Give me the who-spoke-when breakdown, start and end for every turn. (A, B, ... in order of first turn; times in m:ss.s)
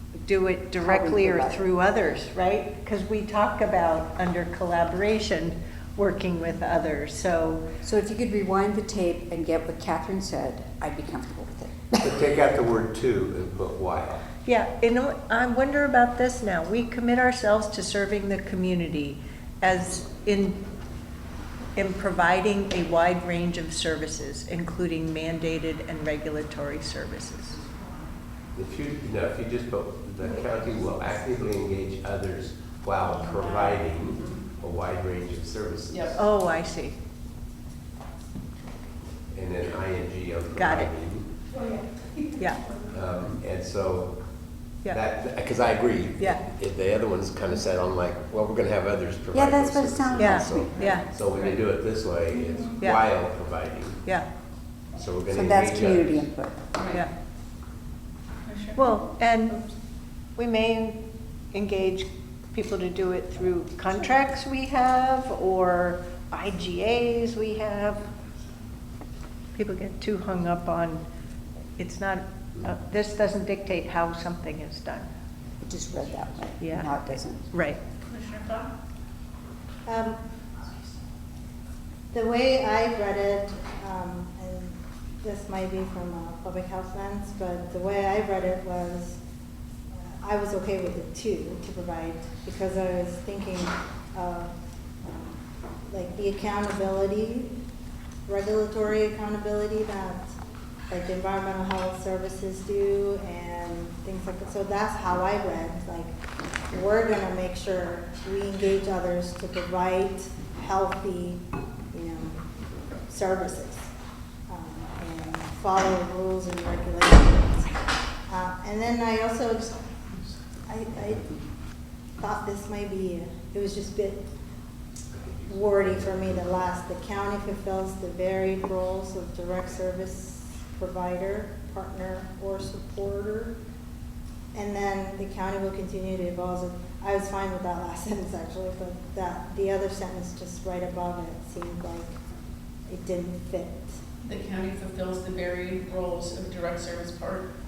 0:00.2-0:07.6 A
0:00.8-0:01.6 B
0:07.8-0:12.2 B
0:12.0-0:14.2 C
0:14.4-0:20.6 A
0:21.8-0:27.6 A
0:28.6-0:36.2 C
0:35.9-0:36.2 D
0:36.2-0:37.0 A
0:39.3-0:41.3 C
0:40.6-0:40.9 A
0:42.4-0:42.6 A
0:42.9-0:44.2 C
0:44.8-0:54.1 C
0:49.3-0:50.9 B
0:50.2-0:51.1 A
0:50.9-0:51.6 D
0:52.8-0:53.1 A
0:55.0-0:56.2 C
0:55.3-0:56.6 B
0:56.7-0:57.0 D
0:58.4-0:58.8 D
0:58.8-0:59.6 A
1:00.4-1:01.0 A
1:01.5-1:08.1 A
1:09.6-1:11.0 A
1:11.8-1:15.1 A
1:15.6-1:17.5 B
1:16.6-1:16.9 A
1:17.5-1:17.8 A
1:18.1-1:18.7 D
1:19.9-1:20.2 E
1:22.1-1:29.2 E
1:29.9-1:37.5 E
1:38.3-1:40.4 E
1:40.9-1:46.2 E
1:46.7-1:52.4 E
1:53.1-1:53.9 E
1:54.5-1:57.8 E
1:58.3-1:59.9 E
2:00.7-2:01.3 E
2:02.2-2:04.3 E
2:05.1-2:06.7 C
2:05.5-2:13.6 E
2:14.5-2:22.2 E
2:22.9-2:24.0 E
2:24.2-2:27.5 D